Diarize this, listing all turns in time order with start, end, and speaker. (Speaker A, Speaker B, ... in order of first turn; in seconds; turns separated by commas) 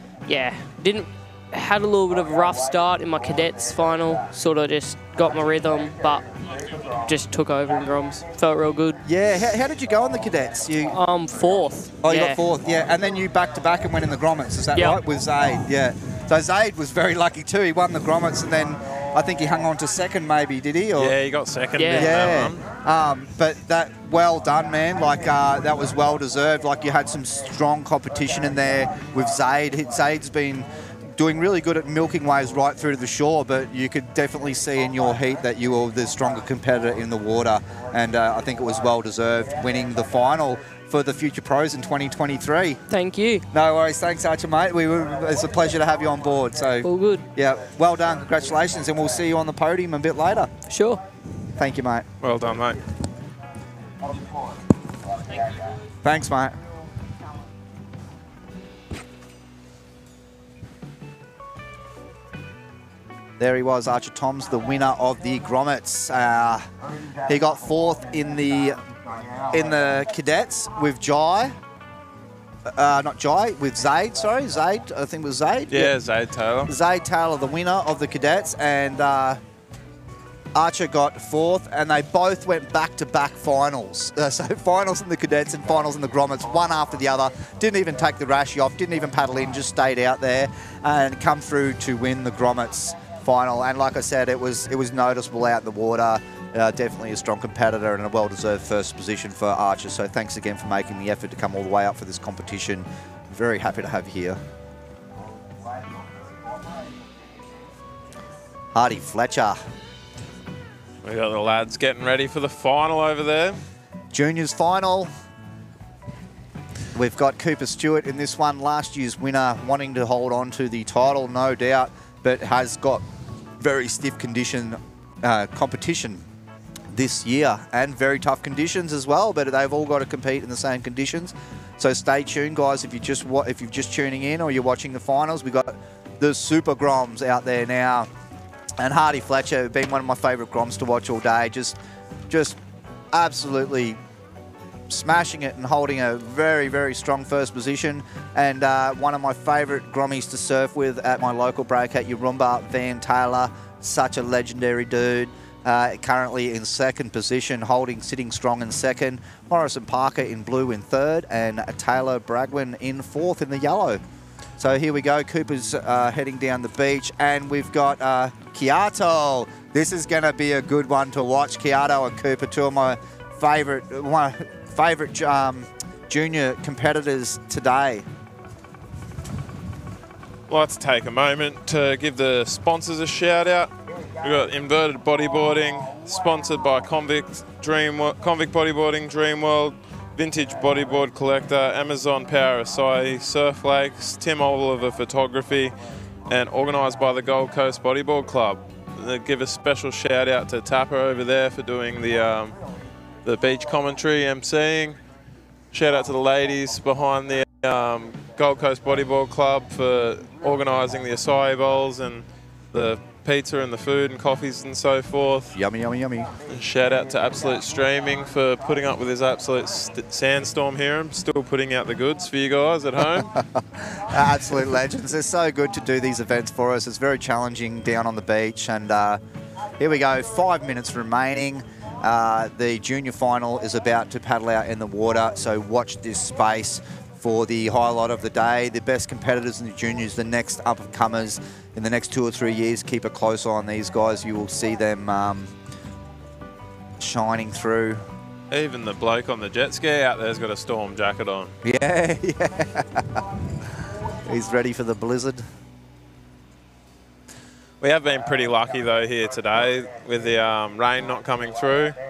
Speaker A: 0.3-9.0, Speaker B: 9.1-11.0, Speaker A: 10.9-12.4, Speaker B: 12.0-21.1, Speaker A: 14.7-15.0, Speaker C: 21.0-22.6, Speaker A: 21.8-22.4, Speaker B: 21.9-42.8, Speaker A: 42.9-43.5, Speaker B: 43.5-50.5, Speaker A: 46.8-47.2, Speaker A: 50.7-51.0, Speaker B: 51.6-52.1, Speaker C: 52.2-52.8, Speaker B: 56.0-56.6, Speaker B: 63.4-66.7, Speaker B: 67.2-68.8, Speaker B: 69.5-71.5, Speaker B: 72.7-75.9, Speaker C: 75.7-76.7, Speaker B: 76.7-79.4, Speaker B: 80.5-104.4, Speaker B: 108.7-109.6, Speaker C: 111.0-113.6, Speaker B: 114.1-115.1, Speaker B: 116.9-123.0, Speaker B: 123.6-126.2, Speaker B: 126.9-138.1, Speaker B: 138.8-141.8, Speaker B: 142.3-142.6, Speaker B: 143.1-144.0, Speaker B: 144.9-164.0, Speaker B: 164.6-178.1, Speaker C: 180.5-195.8, Speaker C: 196.3-202.6, Speaker C: 203.2-205.0, Speaker C: 205.7-215.5, Speaker B: 215.5-216.3, Speaker C: 216.5-223.3, Speaker B: 223.0-229.2, Speaker B: 229.8-245.5, Speaker B: 247.0-248.0, Speaker C: 248.5-251.6, Speaker B: 251.6-253.2, Speaker B: 254.2-255.4, Speaker C: 257.8-262.0